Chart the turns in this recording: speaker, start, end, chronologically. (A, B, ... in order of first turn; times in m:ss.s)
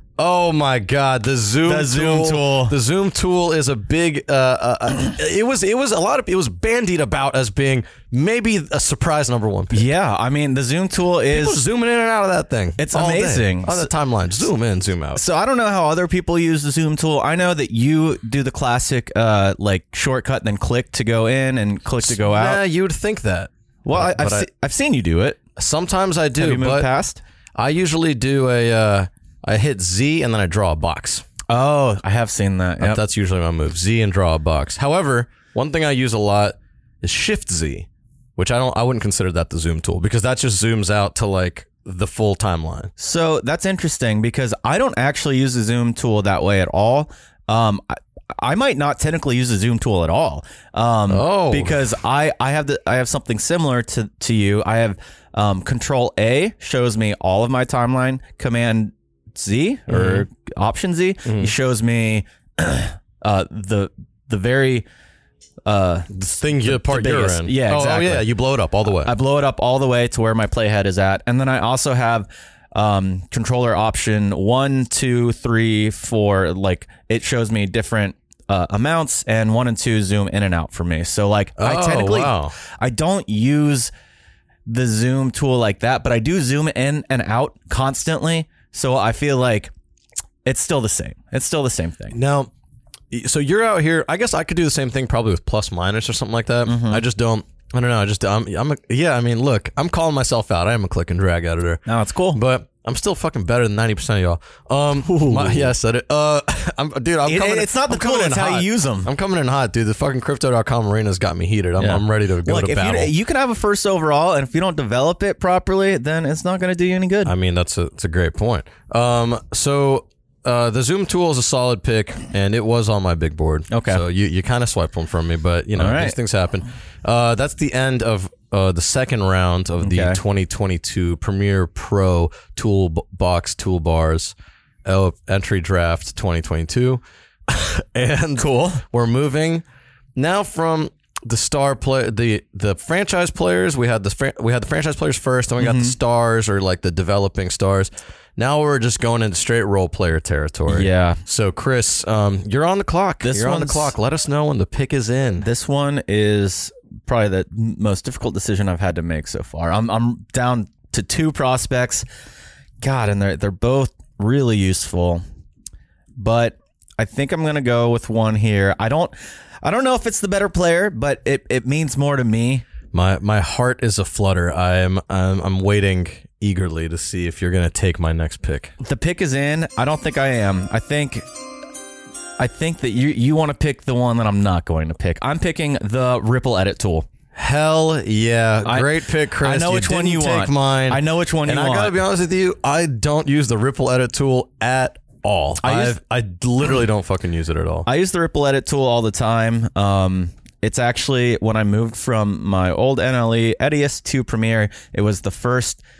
0:00.2-0:09.9 A
0:01.6-0:02.8 B
0:09.7-0:11.6 B
0:11.3-0:15.2 A
0:12.8-0:13.9 B
0:15.1-0:22.6 B
0:22.0-0:24.5 A
0:23.9-0:25.4 B
0:25.6-0:26.9 A
0:26.4-0:27.2 B
0:27.6-0:31.3 A
0:31.5-0:33.0 B
0:32.8-0:42.9 A
0:43.0-1:04.8 B
0:51.1-0:51.8 A
0:59.9-1:00.3 A
1:01.2-1:01.5 A
1:05.6-1:08.3 B
1:06.1-1:09.1 A
1:08.9-1:23.9 B
1:21.6-1:22.6 A
1:24.6-1:29.7 B
1:30.4-1:32.2 B
1:32.1-1:32.5 A
1:33.1-1:53.1 A
1:36.6-1:37.0 B
1:41.9-1:42.4 B
1:45.0-1:45.7 B
1:47.3-1:49.1 B
1:51.8-1:57.3 B
1:57.2-2:19.6 A
2:03.7-2:04.0 B
2:05.7-2:06.2 B
2:09.8-2:10.2 B
2:18.4-2:18.8 B
2:20.2-2:35.5 A
2:25.6-2:26.0 B
2:30.7-2:31.2 B
2:33.2-2:33.9 B
2:35.4-2:42.0 B
2:42.8-2:45.2 B
2:46.2-2:52.6 B
2:52.9-2:58.7 A
2:58.8-3:01.2 B
3:02.4-3:07.0 B
3:07.4-3:17.9 A
3:08.6-3:12.0 B
3:15.6-3:16.0 B
3:17.9-3:25.8 B